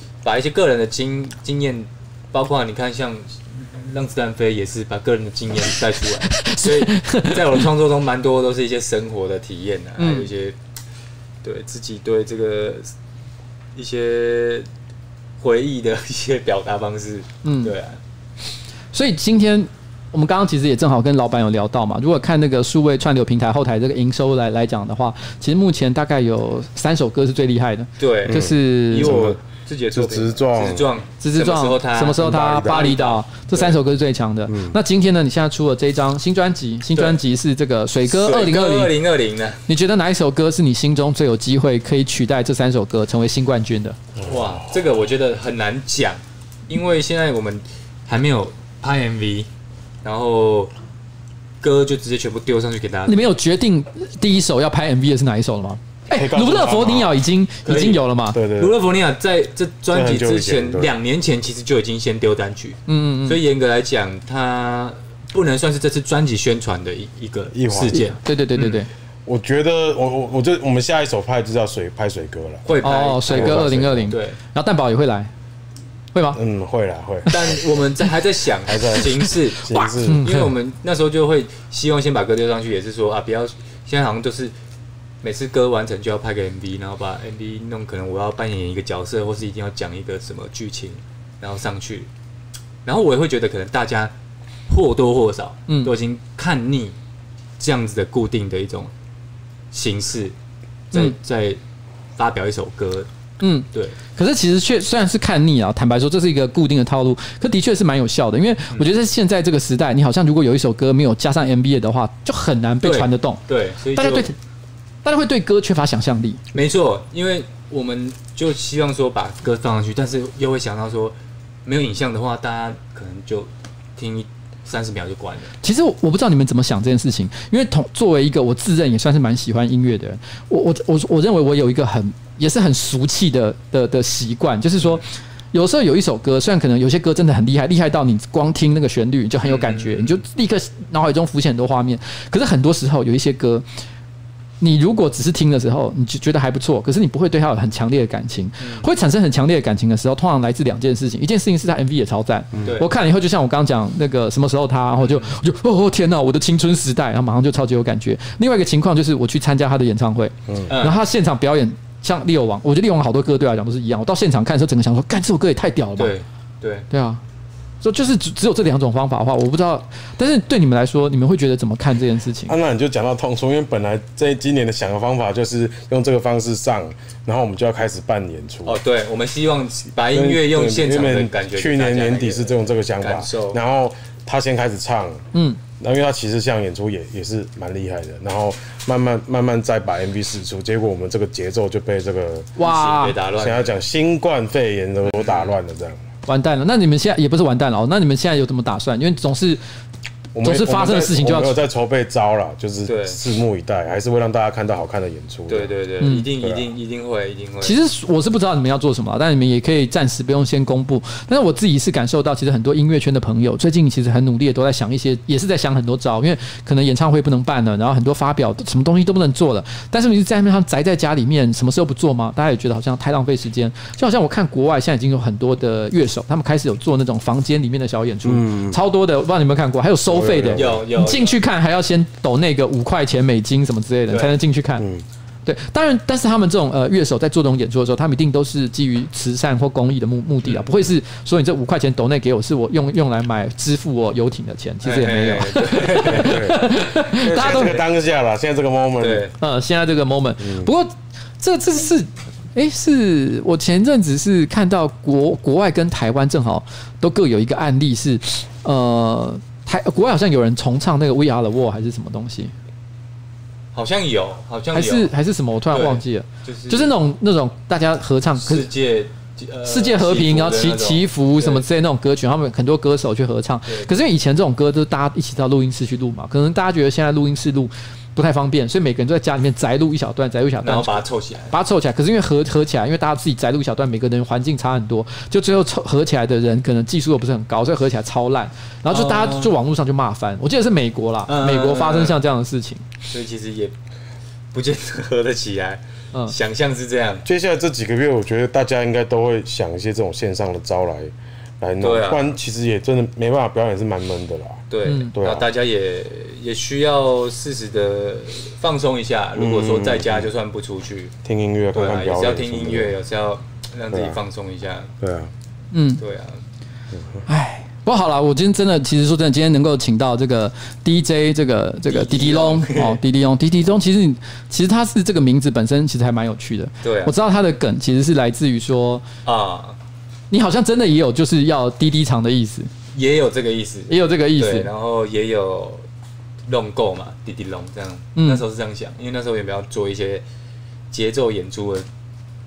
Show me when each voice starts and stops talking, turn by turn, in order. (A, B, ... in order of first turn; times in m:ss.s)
0:00.2-0:10.6 A
0:06.3-0:07.6 B
0:10.0-0:10.3 B
0:11.4-0:12.9 A
0:13.7-0:14.7 A
0:15.4-0:18.0 A
0:17.4-0:17.7 B
0:18.9-0:29.1 B
0:28.0-0:33.8 A
0:28.3-0:29.4 C
0:29.9-0:30.9 C
0:31.2-0:38.9 B
0:32.2-0:33.0 C
0:34.5-0:34.8 C
0:38.0-0:39.6 A
0:39.7-0:44.0 B
0:44.2-0:49.5 A
0:50.0-0:50.7 A
0:51.6-0:53.2 A
0:53.1-0:58.4 B
0:56.1-0:57.2 C
0:57.6-0:58.0 A
0:58.3-0:58.8 C
0:58.5-1:08.8 A
0:59.9-1:00.9 C
1:02.9-1:03.4 B
1:07.5-1:08.0 C
1:07.9-1:08.9 B
1:09.2-1:12.7 C
1:12.6-1:14.4 A
1:12.8-1:15.3 B
1:13.3-1:14.1 C
1:16.1-1:16.4 B
1:16.3-1:17.3 C
1:17.3-1:24.5 A
1:18.7-1:20.2 C
1:20.0-1:20.5 B
1:25.2-1:32.1 A
1:32.8-1:34.1 A
1:34.7-1:37.0 A
1:37.6-1:38.9 A
1:39.7-1:40.3 A
1:40.9-1:41.6 A
1:42.2-1:43.1 A
1:43.4-1:53.4 B
1:52.8-1:54.3 A
1:53.9-1:54.3 B
1:55.0-1:56.4 B
1:56.5-2:05.5 A
2:05.6-2:23.6 B
2:19.4-2:20.2 A
2:24.6-2:46.1 B
2:28.6-2:28.8 A
2:35.0-2:35.3 A
2:40.7-2:41.0 A
2:46.0-2:46.9 A
2:46.9-2:47.2 B
2:47.8-2:52.6 B
2:52.5-2:58.8 C
2:58.6-3:03.6 A
3:00.1-3:05.2 C
3:05.3-3:05.6 B
3:05.8-3:12.5 C
3:12.6-3:13.2 B
3:12.6-3:13.7 A
3:13.4-3:16.1 C
3:15.1-3:15.5 A
3:16.2-3:19.6 B
3:20.3-3:25.7 C
3:20.4-3:21.6 B
3:22.8-3:23.2 A
3:25.5-3:27.8 A
3:26.0-3:26.3 B
3:26.4-3:26.7 C
3:27.6-3:54.8 B
3:48.2-3:48.8 C
3:50.1-3:50.8 C
3:50.5-3:51.4 A
3:54.1-3:54.3 A
3:54.8-3:55.0 C
3:55.4-4:07.8 B
4:00.4-4:00.7 A
4:04.8-4:06.4 A
4:06.1-4:09.2 C
4:07.3-4:07.8 A
4:09.0-4:09.3 A
4:09.4-4:22.5 B
4:10.4-4:10.7 C
4:23.7-4:25.1 A
4:24.7-4:28.7 B
4:25.7-4:26.9 A
4:28.4-4:31.6 A
4:29.6-4:40.9 B
4:33.7-4:34.0 A
4:40.6-4:41.5 A
4:41.5-4:52.8 B
4:48.9-4:49.5 A
4:51.3-4:52.2 A
4:53.1-4:53.7 A
4:54.5-4:57.2 A
4:57.2-5:05.5 C
5:01.8-5:02.3 A
5:04.7-5:11.1 A
5:04.8-5:05.1 B
5:09.4-5:10.3 C
5:11.2-5:12.9 C
5:11.7-5:14.9 A
5:13.9-5:14.2 C
5:15.0-5:15.3 C
5:15.7-5:16.0 B
5:16.0-5:16.4 A
5:17.3-5:29.0 B
5:21.9-5:23.0 A
5:26.8-5:27.1 A
5:29.2-5:29.8 A
5:30.3-5:32.7 B
5:32.9-5:35.8 A
5:33.9-5:34.7 B
5:36.5-5:40.2 A
5:38.2-5:38.4 B
5:40.9-5:41.9 A